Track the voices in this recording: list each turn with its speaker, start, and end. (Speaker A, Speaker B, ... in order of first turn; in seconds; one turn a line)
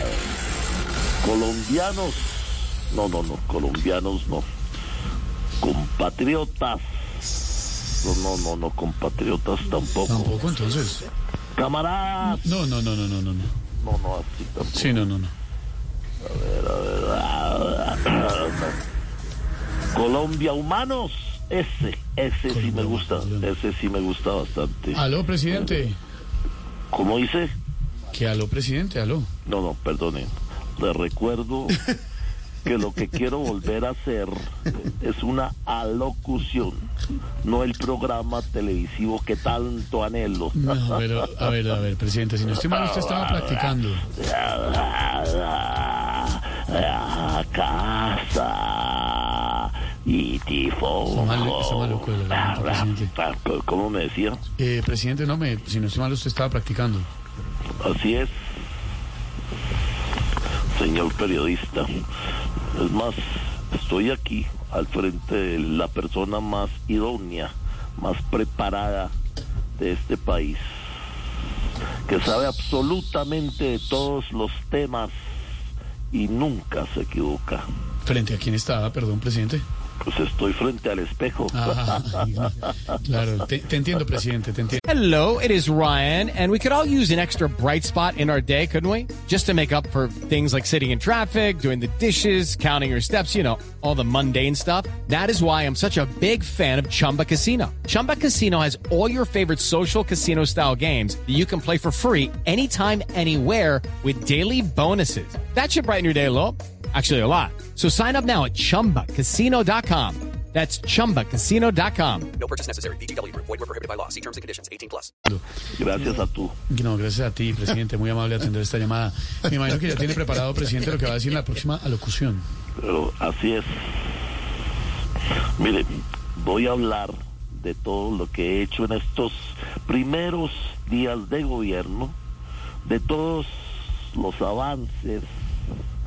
Speaker A: 1.2-4.4
Speaker A: 5.6-7.0
Speaker A: 8.0-10.4
Speaker B: 10.1-11.0
Speaker A: 11.6-12.5
Speaker B: 12.2-13.5
Speaker A: 13.8-14.9
Speaker B: 14.7-15.3
Speaker A: 16.2-18.7
Speaker A: 19.9-25.7
Speaker B: 22.5-23.5
Speaker B: 24.9-26.0
Speaker A: 26.9-27.5
Speaker B: 28.1-29.3
Speaker A: 29.4-31.8
Speaker A: 32.6-36.9
Speaker A: 37.4-40.7
Speaker B: 40.5-44.0
Speaker A: 42.7-54.4
Speaker B: 51.1-53.1
Speaker B: 54.6-57.1
Speaker A: 57.8-58.5
Speaker A: 60.7-61.9
Speaker A: 62.7-69.1
Speaker A: 69.8-70.7
Speaker A: 72.1-75.1
Speaker A: 76.1-77.6
Speaker B: 78.0-79.6
Speaker A: 80.0-82.7
Speaker B: 81.5-84.8
Speaker C: 84.9-112.3
Speaker D: 112.4-115.1
Speaker A: 115.7-116.6
Speaker B: 116.7-122.4
Speaker A: 122.8-124.1
Speaker A: 125.6-132.1
Speaker A: 132.8-135.2